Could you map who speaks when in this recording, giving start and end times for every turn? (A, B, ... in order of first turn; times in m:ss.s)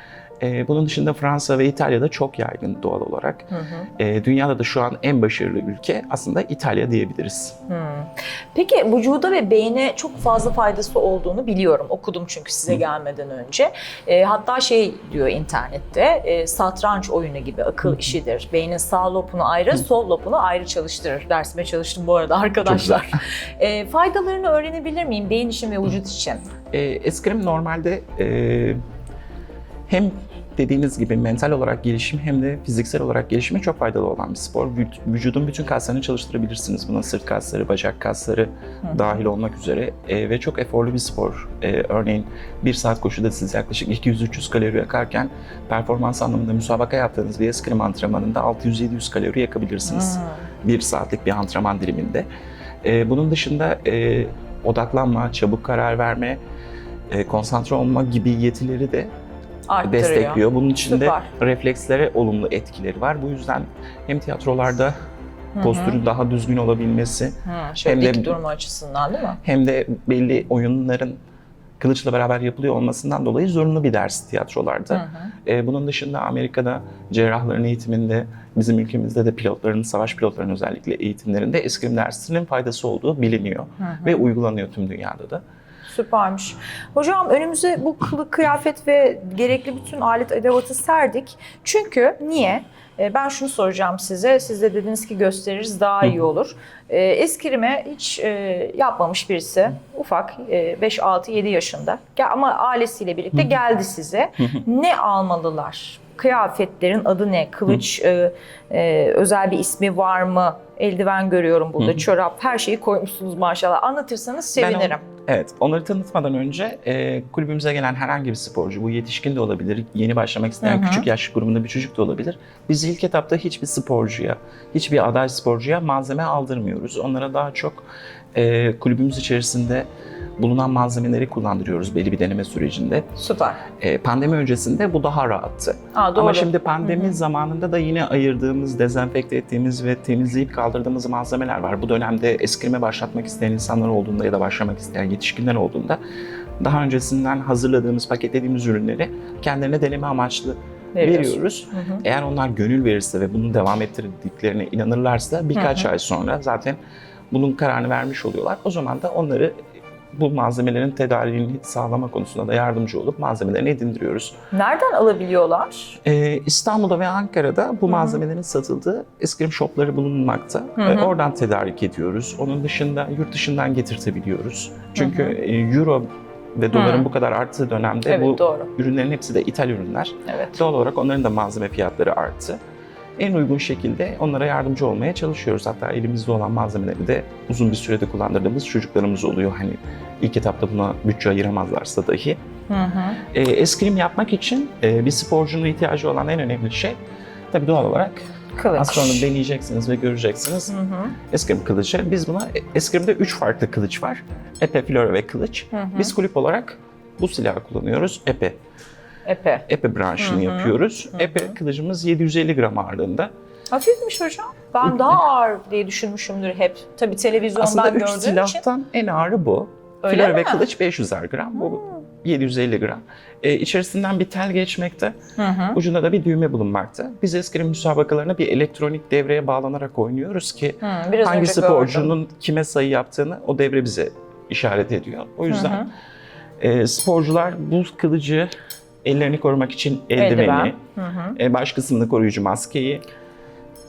0:00.4-0:07.6 A
0:03.5-0:03.9 B
0:07.7-0:26.5 B
0:22.6-0:23.1 A
0:26.7-0:28.8 A
0:29.9-0:52.3 A
0:38.8-0:39.2 B
0:49.8-0:50.5 B
0:52.8-0:56.4 A
0:57.1-0:59.1 A
0:59.7-1:01.3 B
0:59.8-1:05.0 A
1:05.6-1:06.0 B
1:05.6-1:08.4 A
1:07.4-1:09.4 B
1:09.4-1:11.2 A
1:11.8-1:25.4 A
1:14.9-1:15.3 B
1:23.8-1:24.2 B
1:25.9-1:55.0 B
1:51.8-1:52.0 A
1:54.6-2:09.9 A
2:00.6-2:01.1 B
2:10.4-2:13.1 A
2:13.2-2:13.6 B
2:13.8-2:26.0 A
2:15.9-2:17.2 B
2:26.6-2:36.8 A
2:31.0-2:32.0 B
2:35.5-2:35.9 B
2:37.3-2:39.6 A
2:40.1-2:44.4 A
2:44.5-2:46.0 B
2:46.0-3:02.6 A
2:47.9-2:48.2 B
2:50.8-2:51.1 B
2:55.0-2:55.4 B
2:56.7-2:57.1 B
2:58.1-2:58.7 B
3:00.3-3:00.6 B
3:03.2-3:12.4 A
3:12.7-3:13.2 B
3:13.3-3:17.0 A
3:17.5-3:20.7 A
3:18.6-3:19.3 B
3:20.7-3:21.2 B
3:21.3-3:28.6 A
3:25.7-3:26.1 B
3:29.3-3:29.6 B
3:29.7-3:33.3 A
3:30.2-3:31.6 B
3:33.7-3:38.6 B
3:37.6-3:45.2 A
3:40.0-3:40.6 B
3:41.6-3:42.0 B
3:45.4-3:45.8 B
3:45.7-3:55.9 A
3:50.8-3:52.1 B
3:55.5-3:55.9 B
3:56.6-3:58.5 A
3:59.0-4:00.8 A
4:00.2-4:01.4 B
4:01.4-4:03.0 A